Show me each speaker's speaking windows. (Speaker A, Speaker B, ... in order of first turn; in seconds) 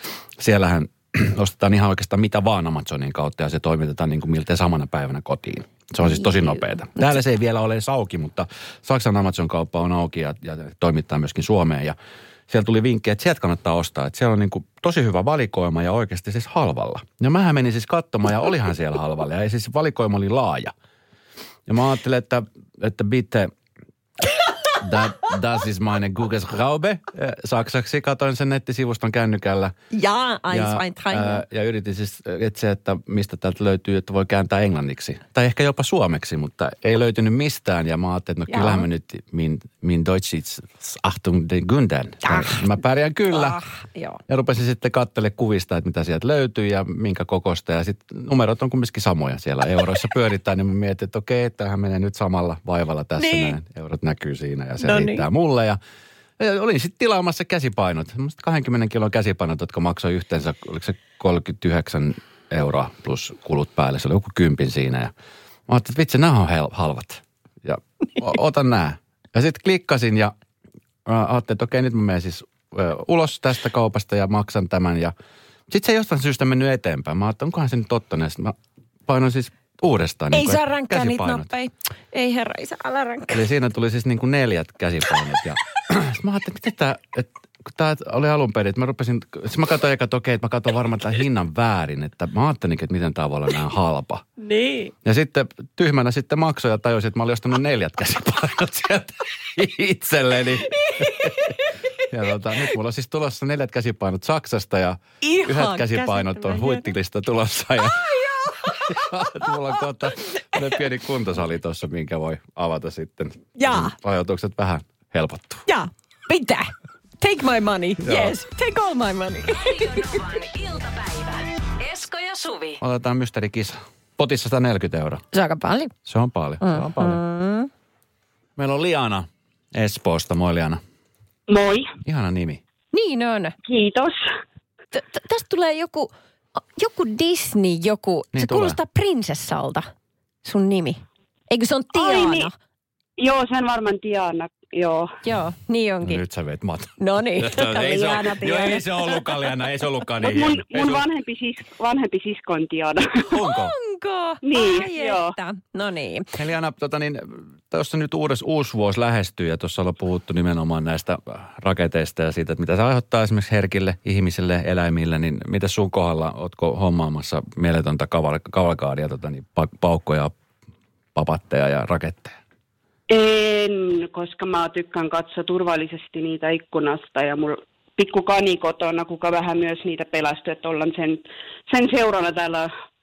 Speaker A: 0.4-11.9, 12.5-20.7, 21.7-23.5, 24.8-29.7, 30.5-43.6, 44.3-55.8, 56.4-65.1, 65.7-70.3, 71.0-75.1, 75.7-78.5, 79.1-81.5, 83.3-94.2, 95.0-108.0, 108.6-115.6, 118.0-118.3, 122.8-125.2, 126.0-127.2, 128.6-130.8, 132.0-132.6, 138.3-138.8, 146.0-151.1, 153.3-153.8, 156.3-170.3, 171.1-172.4
Speaker B: 6.0-7.2, 29.9-31.4, 38.5-38.8, 42.2-42.8, 43.3-44.2, 53.2-53.6, 54.8-55.2, 80.3-83.5, 94.4-94.9, 100.7-101.8, 105.2-106.9, 107.8-109.5, 110.4-110.7, 113.5-113.9, 115.7-120.2, 125.3-125.9, 126.6-127.7, 132.9-133.5, 134.9-139.9, 140.4-142.5, 145.2-146.2, 147.0-148.9, 153.3-156.3
Speaker C: 119.5-122.8
Speaker D: 131.5-131.9, 133.6-134.2, 141.9-142.5, 143.2-145.2, 150.2-153.3, 154.4-155.3, 173.1-182.7